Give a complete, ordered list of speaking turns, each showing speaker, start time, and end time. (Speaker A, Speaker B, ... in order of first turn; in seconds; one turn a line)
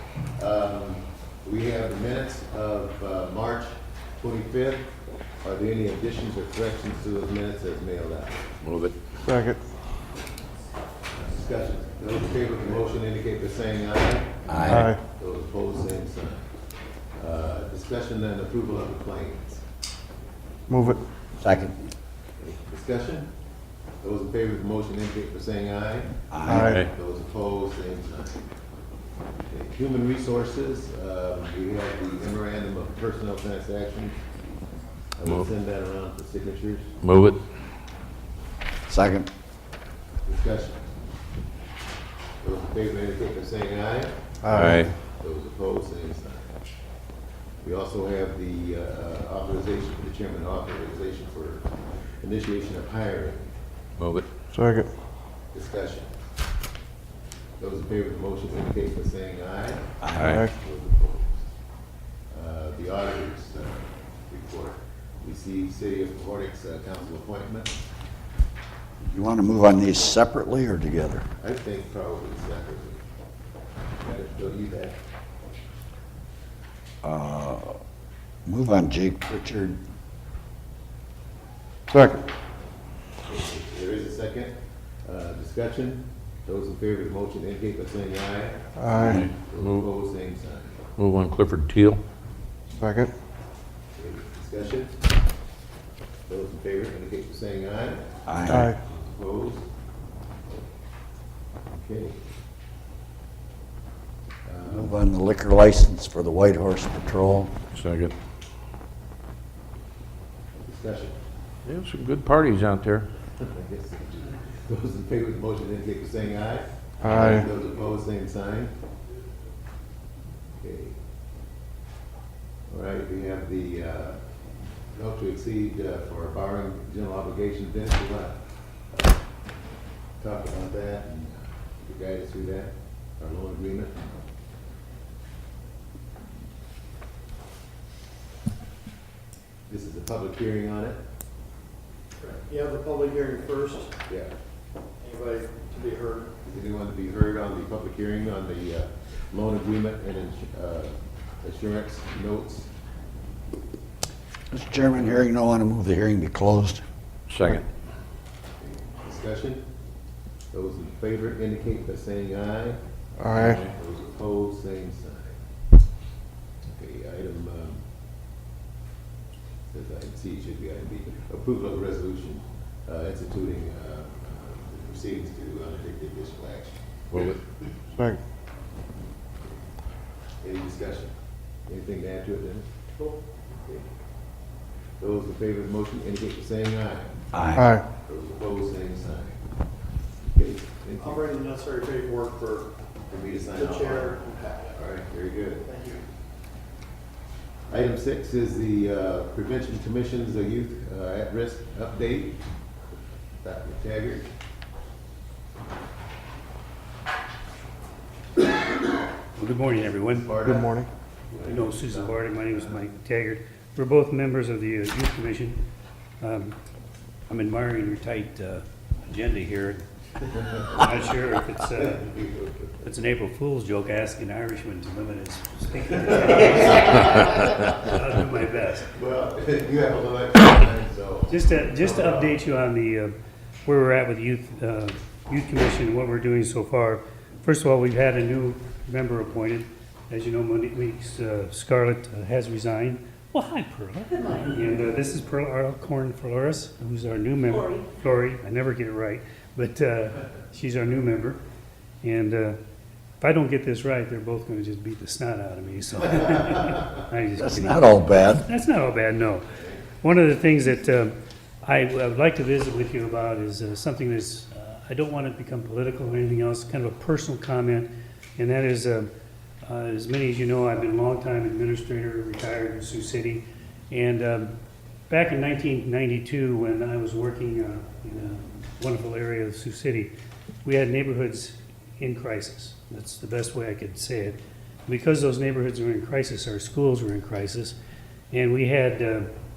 Speaker A: 0.3-8.5
Speaker B: 8.6-8.9
Speaker C: 9.3-9.6
Speaker A: 11.1-16.5
Speaker D: 14.5-14.9
Speaker A: 17.1-19.6
Speaker C: 20.7-21.0
Speaker D: 21.4-21.7
Speaker A: 22.4-23.3
Speaker A: 24.0-28.4
Speaker D: 26.3-26.8
Speaker C: 26.5-26.7
Speaker B: 26.6-26.9
Speaker A: 29.4-34.2
Speaker A: 35.2-36.9
Speaker B: 37.0-37.4
Speaker D: 38.9-39.3
Speaker A: 40.2-40.9
Speaker A: 42.4-46.6
Speaker B: 44.5-44.9
Speaker A: 47.6-51.7
Speaker A: 52.2-53.5
Speaker B: 54.0-54.3
Speaker C: 54.5-54.9
Speaker A: 55.5-56.1
Speaker A: 57.6-61.5
Speaker D: 60.0-60.4
Speaker B: 60.2-60.5
Speaker A: 62.3-67.8
Speaker D: 69.0-71.3
Speaker A: 71.4-73.0
Speaker A: 74.0-75.0
Speaker D: 77.0-77.8
Speaker D: 78.5-79.8
Speaker C: 81.9-82.2
Speaker A: 83.2-90.8
Speaker C: 88.8-89.2
Speaker B: 88.9-89.9
Speaker B: 91.0-92.0
Speaker C: 92.8-93.1
Speaker A: 94.0-95.0
Speaker A: 96.3-98.1
Speaker D: 98.3-98.7
Speaker A: 98.8-99.7
Speaker A: 101.7-102.2
Speaker A: 104.5-105.0
Speaker D: 104.7-107.5
Speaker B: 107.7-108.1
Speaker A: 110.6-111.2
Speaker B: 111.7-113.1
Speaker A: 113.4-118.7
Speaker C: 117.0-117.3
Speaker A: 120.6-121.0
Speaker A: 122.7-124.2
Speaker A: 124.9-129.2
Speaker A: 130.2-134.0
Speaker A: 139.7-141.0
Speaker E: 142.2-143.9
Speaker A: 144.1-144.3
Speaker E: 145.0-146.3
Speaker A: 146.4-152.7
Speaker D: 154.5-156.8
Speaker B: 157.3-157.7
Speaker A: 158.6-159.6
Speaker A: 160.5-165.4
Speaker B: 163.3-163.6
Speaker A: 166.7-167.8
Speaker A: 169.7-177.4
Speaker B: 177.1-177.4
Speaker A: 180.4-181.1
Speaker A: 181.7-182.7
Speaker E: 183.0-183.8
Speaker A: 185.0-187.2
Speaker D: 187.3-187.8
Speaker A: 187.8-189.4
Speaker A: 190.2-191.2
Speaker E: 191.0-192.7
Speaker A: 193.1-195.7
Speaker E: 193.5-194.8
Speaker E: 195.7-196.0
Speaker A: 197.7-202.4
Speaker A: 203.4-204.3
Speaker F: 209.3-210.4
Speaker A: 210.1-212.8
Speaker F: 211.4-215.6
Speaker F: 216.2-216.6
Speaker F: 217.3-219.8
Speaker A: 220.4-220.8
Speaker F: 220.7-222.1
Speaker A: 221.8-222.8
Speaker F: 222.8-228.9
Speaker A: 228.9-232.4
Speaker F: 231.3-251.4
Speaker F: 252.0-252.6
Speaker F: 253.2-259.4
Speaker D: 257.4-258.5
Speaker F: 260.0-269.1
Speaker F: 269.6-274.5
Speaker F: 275.1-280.1
Speaker F: 280.6-287.8
Speaker F: 288.3-289.3